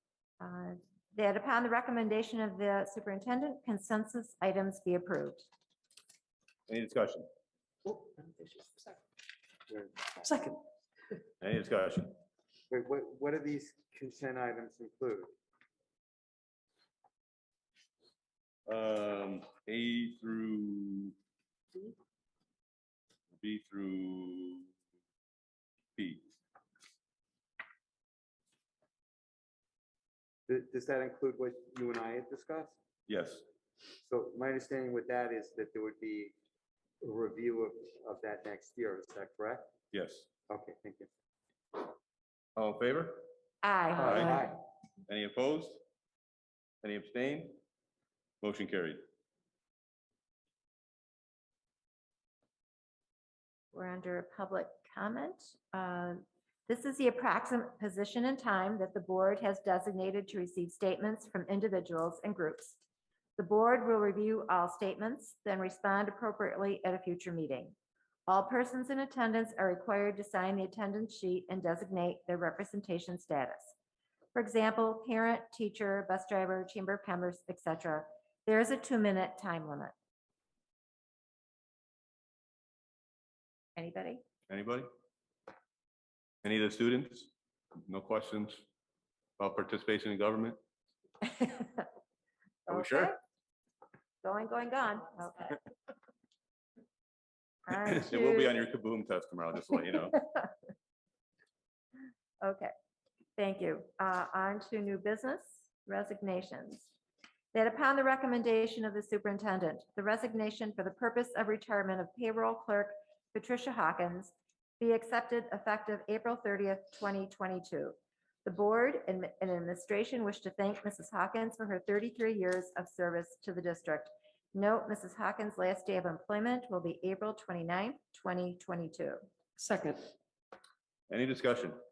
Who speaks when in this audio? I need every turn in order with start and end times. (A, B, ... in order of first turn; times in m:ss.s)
0:00.4-0:05.5 A
0:06.7-0:07.2 B
0:07.9-0:09.0 C
0:09.7-0:10.2 D
0:10.2-0:10.6 C
0:11.4-0:12.1 B
0:12.7-0:15.3 D
0:18.7-0:21.1 B
0:23.4-0:24.7 B
0:26.0-0:26.3 B
0:30.5-0:32.8 D
0:33.1-0:33.4 B
0:34.0-0:36.3 D
0:37.0-0:39.6 D
0:39.9-0:40.3 B
0:40.5-0:41.1 D
0:42.6-0:43.3 B
0:43.6-0:44.5 A
0:44.0-0:44.5 D
0:44.0-0:44.4 B
0:45.1-0:45.8 B
0:46.8-0:47.6 B
0:48.4-0:49.0 B
0:53.7-1:02.8 A
1:03.4-1:07.8 A
1:08.3-1:13.7 A
1:14.3-1:19.9 A
1:23.8-1:24.2 A
1:24.5-1:24.9 B
1:26.4-1:27.3 B
1:27.8-1:28.6 B
1:29.4-1:30.6 B
1:31.4-1:31.8 A
1:32.7-1:33.2 A
1:32.7-1:33.1 B
1:34.2-1:35.6 A
1:37.7-1:38.6 A
1:37.8-1:40.2 B
1:42.4-1:42.7 A
1:43.4-1:46.9 A
1:47.5-2:09.2 A
2:09.6-2:10.1 C
2:11.1-2:11.8 B